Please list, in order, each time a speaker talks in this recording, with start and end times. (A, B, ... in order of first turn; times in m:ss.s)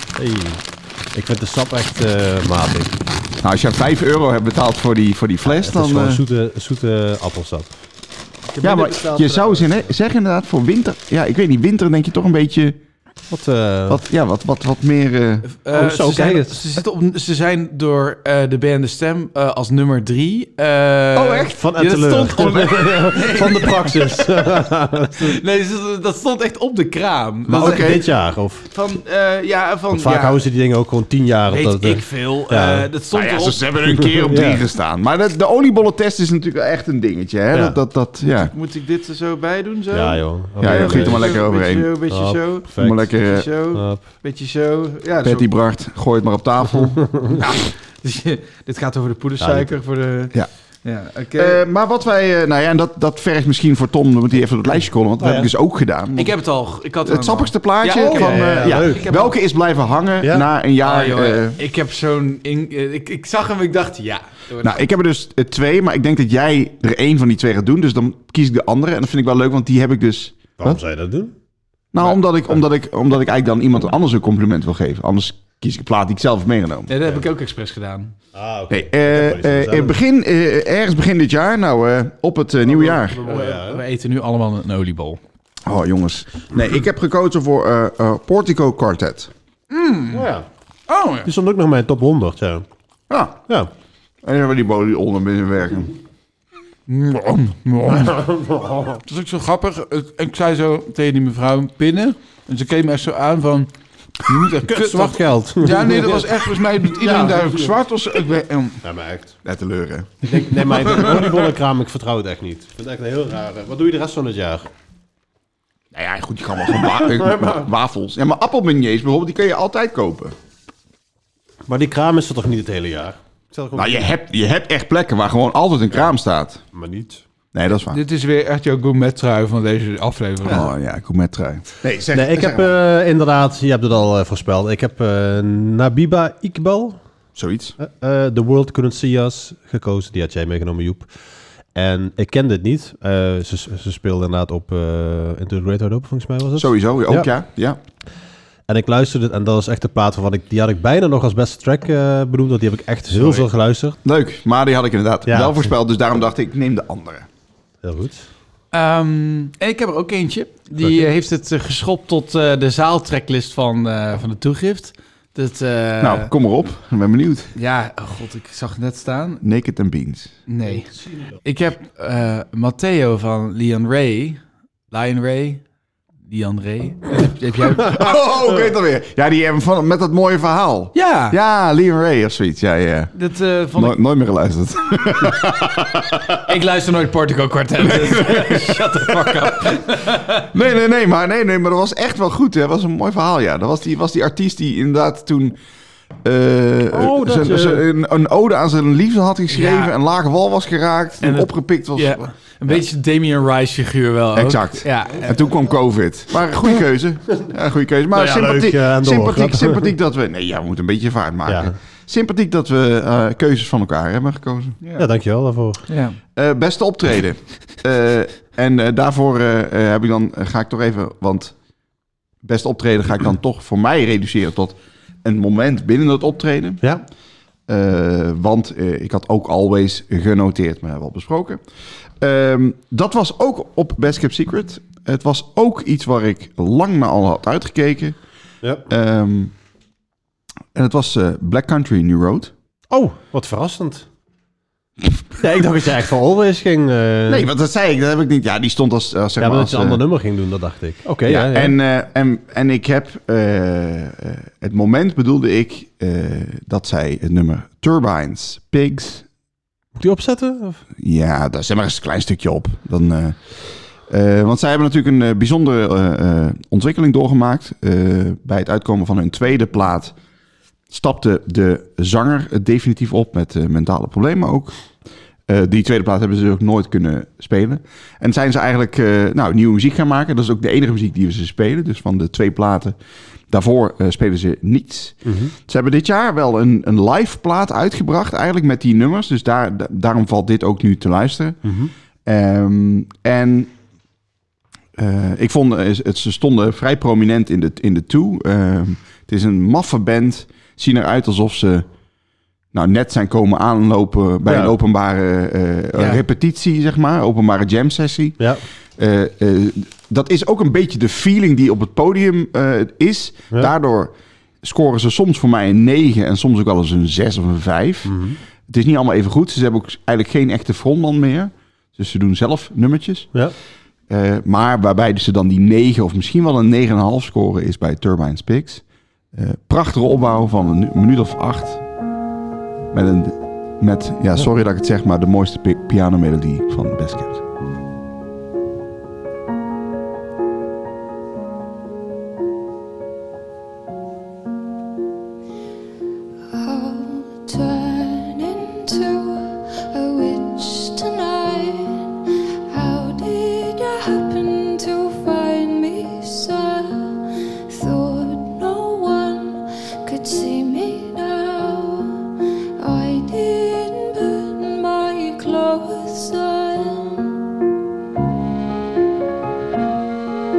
0:00.1-0:03.0 A
0:03.4-0:06.2 B
0:05.4-0:07.7 A
0:08.5-0:09.8 C
0:08.6-0:12.8 B
0:13.3-0:14.0 A
0:13.9-0:15.4 B
0:15.4-0:24.6 C
0:15.7-0:16.6 A
0:21.1-0:21.6 B
0:21.6-0:25.4 A
0:25.2-0:28.0 C
0:27.5-0:28.7 A
0:27.5-0:28.0 B
0:28.7-0:30.4 C
0:29.9-0:32.9 A
0:31.5-0:33.6 C
0:33.1-0:38.5 B
0:33.9-0:34.6 A
0:37.5-0:37.8 A
0:38.4-0:45.5 C
0:39.9-0:41.4 A
0:40.6-0:41.9 B
0:42.1-0:43.1 A
0:42.8-0:43.5 B
0:43.7-0:44.0 A
0:45.2-0:47.5 B
0:47.3-0:51.6 C
0:49.4-0:49.7 A
0:51.4-0:56.3 B
0:55.2-0:55.5 A
0:56.2-0:59.3 C
0:57.0-1:01.6 B
0:57.9-0:59.0 A
1:00.2-1:00.5 A
1:00.8-1:04.8 C
1:04.6-1:10.8 B
1:10.6-1:11.3 A
1:11.9-1:16.9 B
1:16.9-1:18.1 C
1:18.3-1:20.0 A
1:18.7-1:23.2 B
1:22.7-1:23.8 A
1:23.2-1:25.2 C
1:25.6-1:29.3 B
1:29.7-1:30.3 C
1:30.1-1:30.5 A
1:30.9-1:31.3 C
1:31.2-1:32.6 A
1:33.1-1:33.4 B
1:34.2-1:35.9 B
1:36.9-1:38.2 C
1:37.9-1:39.0 A
1:39.0-1:43.7 C
1:44.2-1:48.8 C
1:44.7-1:47.7 A
1:48.8-1:49.4 A
1:49.4-1:51.1 B
1:50.2-1:54.7 A
1:55.9-2:00.3 B
1:57.1-1:57.6 A
2:01.7-2:04.1 A
2:03.7-2:06.6 B
2:06.7-2:07.2 A
2:07.5-2:08.0 B
2:07.9-2:10.7 C
2:10.4-2:12.7 B
2:12.1-2:17.0 A
2:17.4-2:17.8 B
2:17.8-2:21.1 A
2:21.7-2:27.3 A
2:26.6-2:27.8 B
2:28.7-2:34.0 A
2:33.1-2:33.4 C
2:34.0-2:37.3 B
2:35.3-2:35.7 A
2:37.8-2:38.3 A
2:38.7-2:46.3 C
2:46.0-2:47.5 B
2:47.5-2:49.4 C
2:49.4-2:50.3 B
2:50.5-2:50.9 C
2:51.4-2:55.6 C
2:56.3-2:58.2 C
2:57.8-3:03.1 B
3:00.9-3:01.4 C
3:03.1-3:04.0 C
3:03.7-3:06.4 B
3:06.4-3:10.5 C
3:07.8-3:09.7 B
3:10.4-3:15.6 B
3:16.2-3:22.8 B
3:16.9-3:17.9 A
3:19.5-3:19.9 C
3:21.2-3:25.4 C
3:24.3-3:34.8 B
3:28.1-3:29.9 A
3:31.5-3:31.8 A
3:35.0-3:35.8 A
3:35.9-3:36.2 C
3:36.3-3:41.5 B
3:42.4-3:46.9 B
3:47.7-3:51.6 B
3:52.2-3:58.2 B
3:58.9-3:59.5 B
4:00.7-4:02.5 B
4:02.9-4:04.0 A
4:05.4-4:07.5 A
4:07.3-4:10.0 B
4:09.4-4:11.8 A
4:11.2-4:19.2 B
4:20.0-4:20.8 A
4:21.0-4:30.1 B
4:30.9-4:34.8 B
4:35.5-4:43.0 B
4:43.5-4:51.7 B
4:45.2-4:45.5 A
4:51.6-4:51.9 A
4:52.2-4:53.7 B
4:55.0-5:01.8 B
5:02.7-5:23.3 B
5:04.4-5:04.8 A
5:05.9-5:06.2 C
5:18.0-5:18.4 A
5:24.1-5:28.8 B
5:29.3-5:31.8 B
5:32.9-5:37.4 B
5:46.5-5:52.1 D
5:52.7-6:02.2 D
6:02.8-6:07.4 D